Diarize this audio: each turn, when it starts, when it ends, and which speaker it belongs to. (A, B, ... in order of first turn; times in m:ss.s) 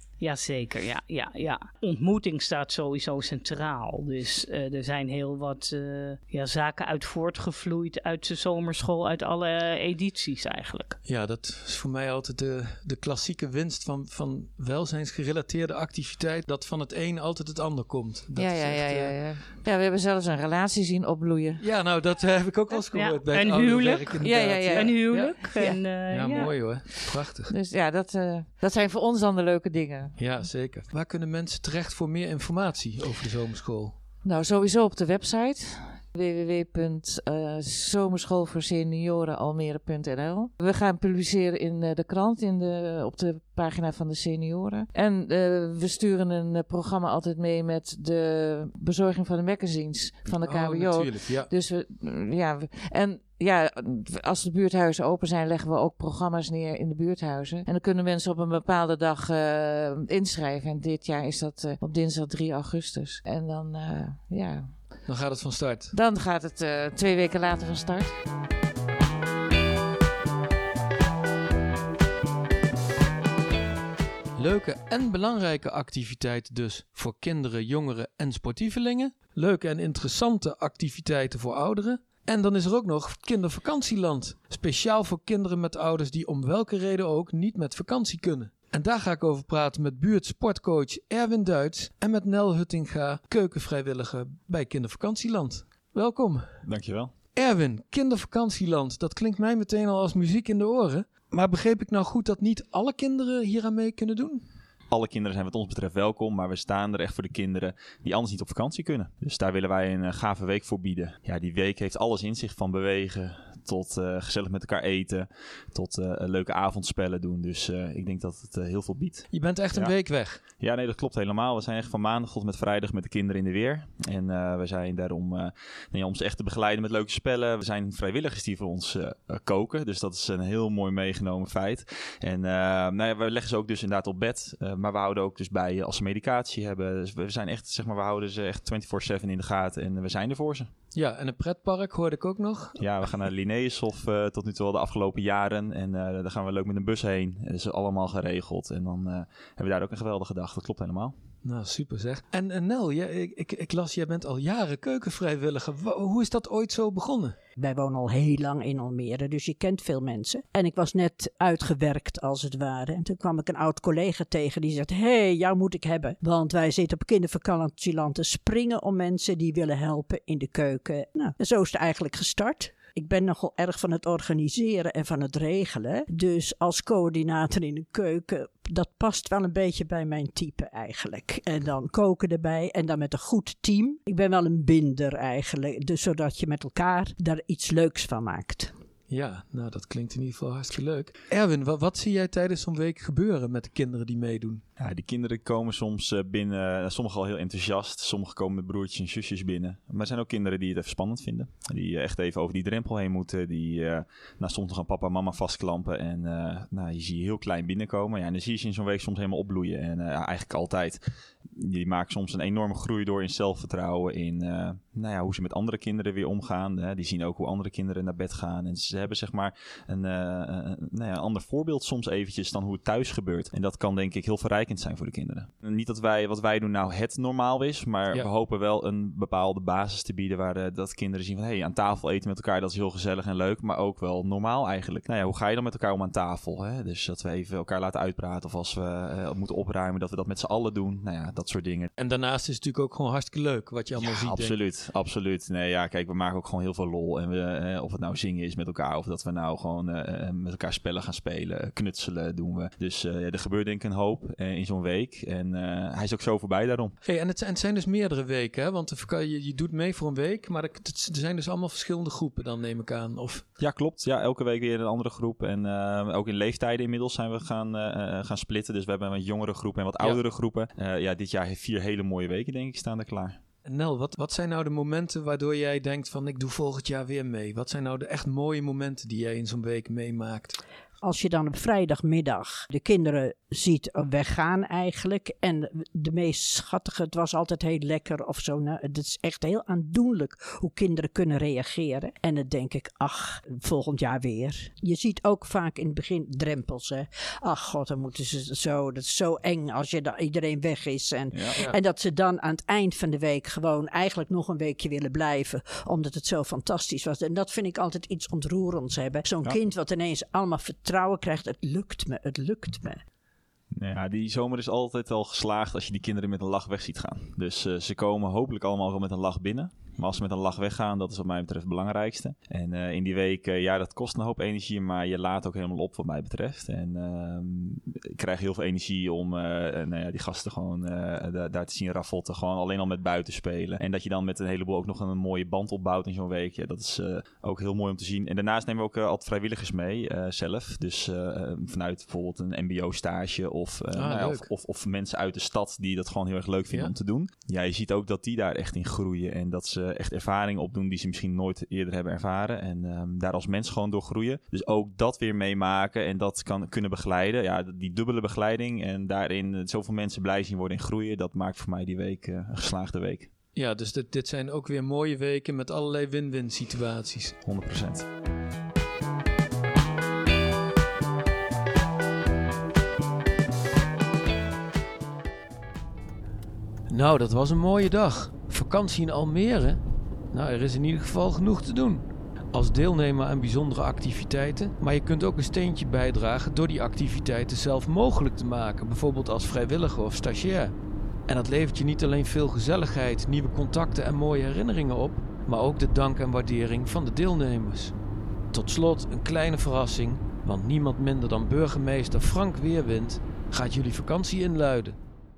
0:00.2-0:11.0 A
0:11.0-0:19.3 B
0:18.4-0:21.6 C
0:21.6-0:27.5 B
0:22.9-0:26.7 A
0:24.2-0:25.8 C
0:27.5-0:30.2 C
0:30.2-0:34.0 B
0:34.2-1:04.8 C
0:50.3-0:51.5 B
1:05.0-1:05.9 B
1:05.9-1:08.2 C
1:14.4-1:36.6 B
1:36.6-1:37.1 D
1:37.4-1:44.4 B
1:44.9-2:00.0 D
1:59.3-2:00.4 B
2:00.5-2:20.7 D
2:20.9-2:22.8 B
2:22.8-2:31.1 D
2:31.4-2:37.4 B
2:37.6-3:08.7 E
3:09.1-3:14.6 B
3:14.8-3:31.0 D
3:31.5-4:01.9 D
4:02.0-4:04.6 B
4:04.0-4:17.0 D
4:17.0-4:23.5 B
4:23.6-4:33.4 D
4:33.6-4:40.6 B
4:41.0-5:13.0 E
5:01.3-5:01.7 D
5:13.8-6:03.3 D
5:44.0-5:44.5 B
6:03.6-6:07.4 B
6:07.4-6:08.1 D
6:16.9-6:19.8 B
6:20.3-6:30.8 B
6:31.3-6:38.0 B
6:38.5-6:45.0 B